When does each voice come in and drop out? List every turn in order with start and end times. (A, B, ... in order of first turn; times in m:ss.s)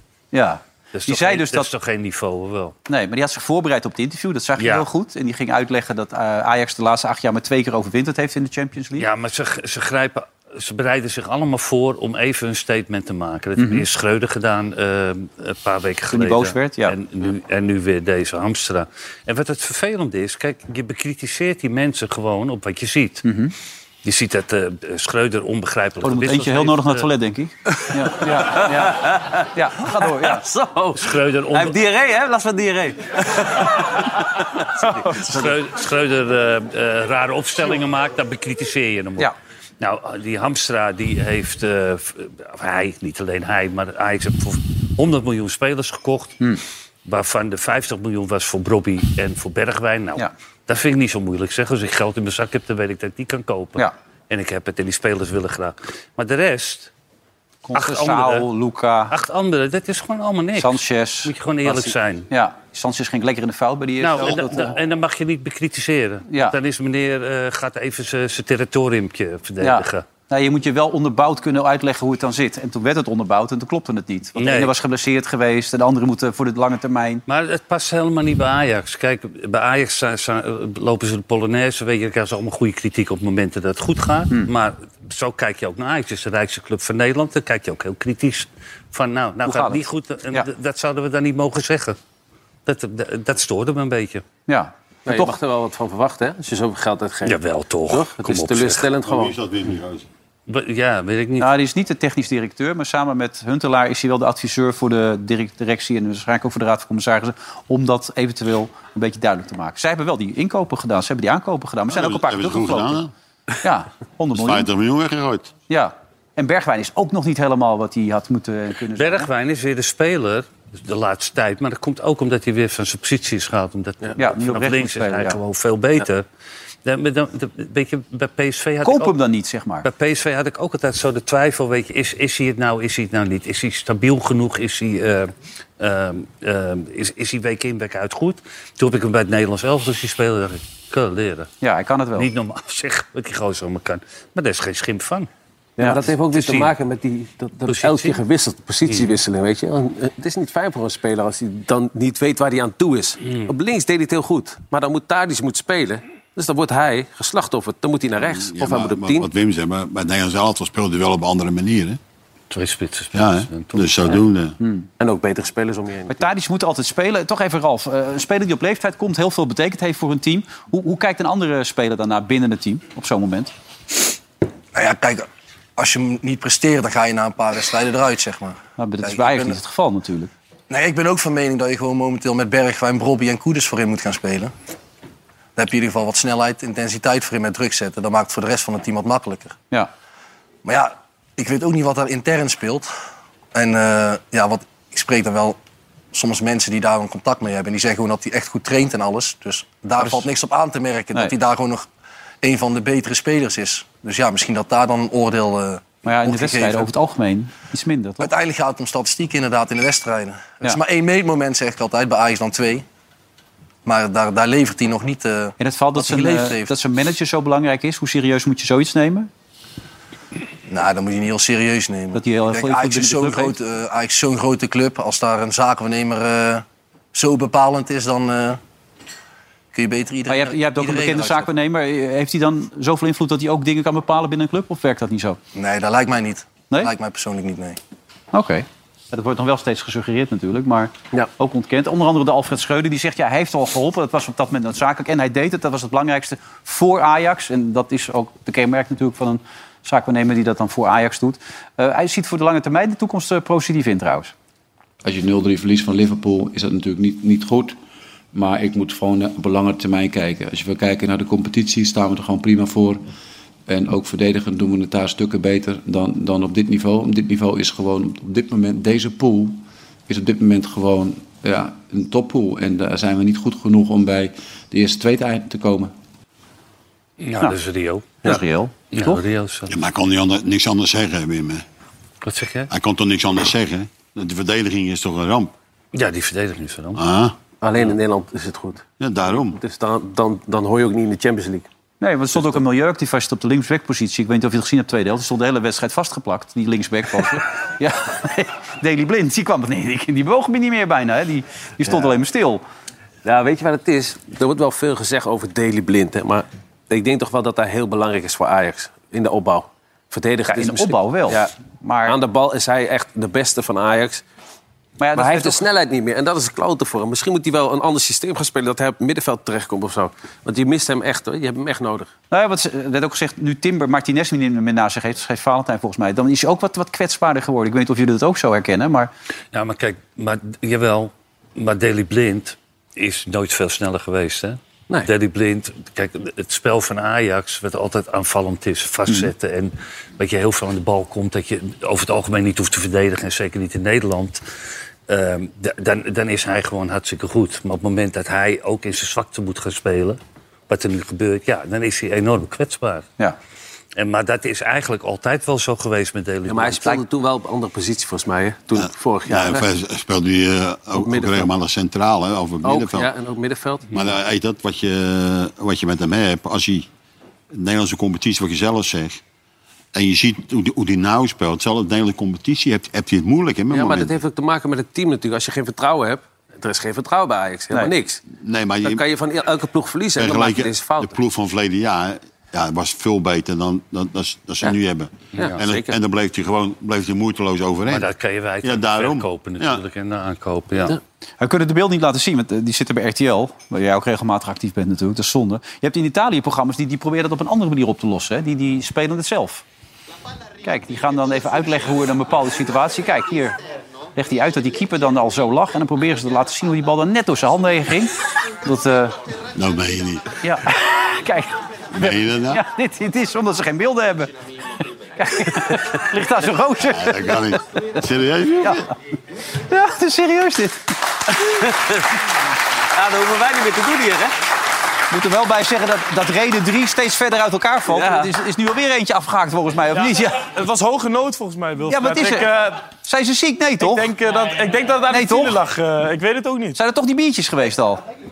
0:00.3-0:01.7 A
0:00.9-0:02.8 B
0:02.9-0:09.1 A
0:04.6-0:04.9 B
0:09.0-0:23.2 B
0:13.6-0:13.8 A
0:16.1-0:17.0 A
0:23.2-0:23.5 A
0:24.0-0:27.1 B
0:26.0-0:29.0 A
0:27.8-0:35.5 C
0:29.6-0:30.4 A
0:31.0-0:31.8 B
0:35.0-0:46.5 B
0:47.0-0:56.9 B
0:57.6-0:59.1 A
0:57.8-0:58.5 B
0:59.1-1:02.3 B
1:00.6-1:04.8 A
1:04.0-1:10.1 B
1:06.3-1:06.6 A
1:09.6-1:17.2 A
1:14.4-1:14.7 B
1:17.3-1:32.0 B
1:29.5-1:29.8 A
1:32.7-1:34.2 B
1:34.5-1:35.4 A
1:35.1-1:39.4 C
1:37.2-1:38.9 B
1:39.0-1:40.1 D
1:40.5-1:41.5 B
1:41.4-1:53.0 A
1:51.9-1:53.1 D
1:53.6-1:54.7 A
1:54.4-1:55.5 D
1:55.7-1:59.3 A
1:59.0-2:06.2 B
2:04.2-2:05.4 A
2:06.8-2:09.2 B
2:08.8-2:09.9 A
2:09.8-2:21.5 B
2:21.6-2:22.3 A
2:22.2-2:25.3 B
2:25.8-2:39.3 C
2:26.3-2:26.7 B
2:27.7-2:28.2 B
2:38.2-2:42.0 D
2:42.5-2:44.2 B
2:43.1-2:44.6 D
2:44.6-2:44.9 A
2:45.0-2:46.2 C
2:46.1-2:53.5 A
2:54.7-2:59.6 E
2:58.8-3:00.3 A
3:00.7-3:04.5 E
3:05.6-3:09.6 E
3:10.6-3:12.9 E
3:13.5-3:15.6 E
3:16.1-3:21.9 E
3:22.4-3:26.9 E
3:26.0-3:28.3 A
3:28.2-3:32.8 E
3:33.8-3:36.7 E
3:35.6-3:39.3 A
3:40.7-3:48.6 E
3:42.2-3:43.6 A
3:49.7-3:51.5 E
3:50.3-3:55.4 A
3:55.6-3:57.8 E
3:58.3-4:14.3 A
4:15.0-4:17.8 F
4:18.3-4:23.0 F
4:23.7-4:35.9 F
4:37.2-4:38.3 B
4:38.2-4:39.2 A
4:38.9-4:39.7 B
4:39.7-4:41.6 D
4:42.2-4:42.7 B
4:42.7-4:45.5 D
4:45.9-4:47.0 B
4:47.0-4:47.4 D
4:47.6-4:51.7 C
4:49.0-4:49.6 D
4:52.0-5:02.6 A
4:52.4-4:52.6 C
5:03.2-5:11.5 C
5:10.5-5:12.2 A
5:12.0-5:14.2 C
5:15.0-5:15.6 A
5:15.2-5:22.1 C
5:22.3-5:29.1 A
5:29.5-5:44.4 B
5:45.1-5:53.1 B
5:54.0-5:57.0 B
5:56.5-5:59.7 C
5:58.8-6:03.1 D
6:00.9-6:01.5 C
6:02.6-6:04.0 C
6:03.9-6:06.9 D
6:07.5-6:09.2 D
6:09.9-6:14.2 D
6:13.7-6:18.2 C
6:18.3-6:19.0 D
6:18.8-6:21.2 C
6:20.2-6:28.1 D
6:25.4-6:25.9 C
6:27.9-6:31.0 B
6:28.6-6:29.8 D
6:31.4-6:39.6 A
6:40.6-6:43.6 A
6:44.2-6:49.2 A
6:49.6-6:50.3 D
6:50.4-6:54.3 A
6:51.9-6:52.6 D
6:55.2-6:57.6 A
6:56.9-6:58.9 D
6:59.7-7:00.9 A
7:01.3-7:02.1 C
7:03.0-7:04.4 C
7:05.1-7:10.5 A
7:07.9-7:08.3 C
7:10.0-7:12.8 G
7:11.9-7:14.2 A
7:13.8-7:16.8 G
7:15.1-7:15.6 A
7:16.8-7:18.0 A